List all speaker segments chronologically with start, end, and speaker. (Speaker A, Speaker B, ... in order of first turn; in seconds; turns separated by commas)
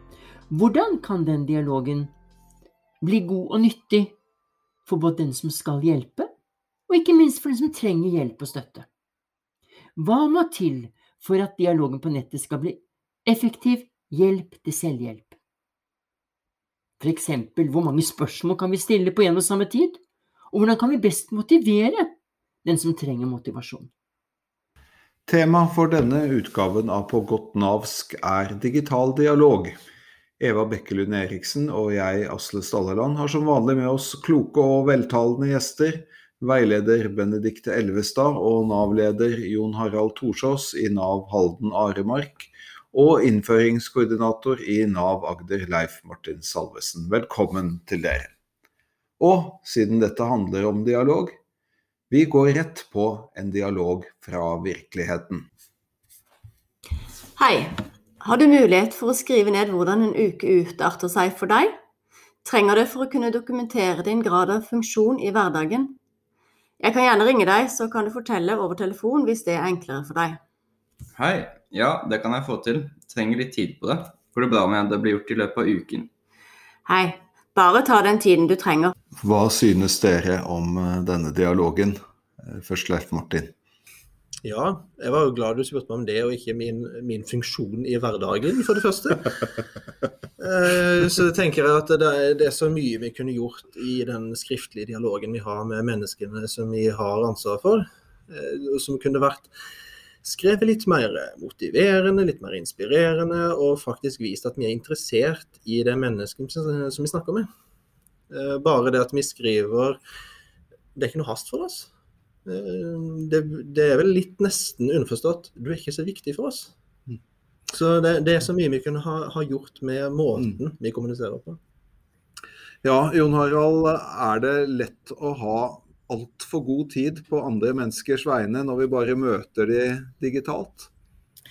Speaker A: 0.5-2.1, Speaker A: 3.0-4.2, Speaker A: 4.8-6.3, Speaker A: 6.9-8.8, Speaker A: 9.9-15.3, Speaker A: 17.0-20.0, Speaker A: 20.5-22.1, Speaker A: 22.6-23.9, Speaker B: 25.3-29.7, Speaker B: 30.4-48.3, Speaker B: 49.2-51.4, Speaker B: 52.1-55.4, Speaker C: 57.4-61.8, Speaker C: 62.4-66.0, Speaker C: 66.8-70.4, Speaker D: 71.1-76.1, Speaker C: 76.8-78.9, Speaker B: 79.2-83.5, Speaker E: 84.4-89.3, Speaker E: 90.4-99.5, Speaker E: 100.2-107.5, Speaker E: 108.3-110.0, Speaker E: 111.0-111.9, Speaker E: 112.5-116.7, Speaker E: 117.7-121.6, Speaker B: 122.8-130.9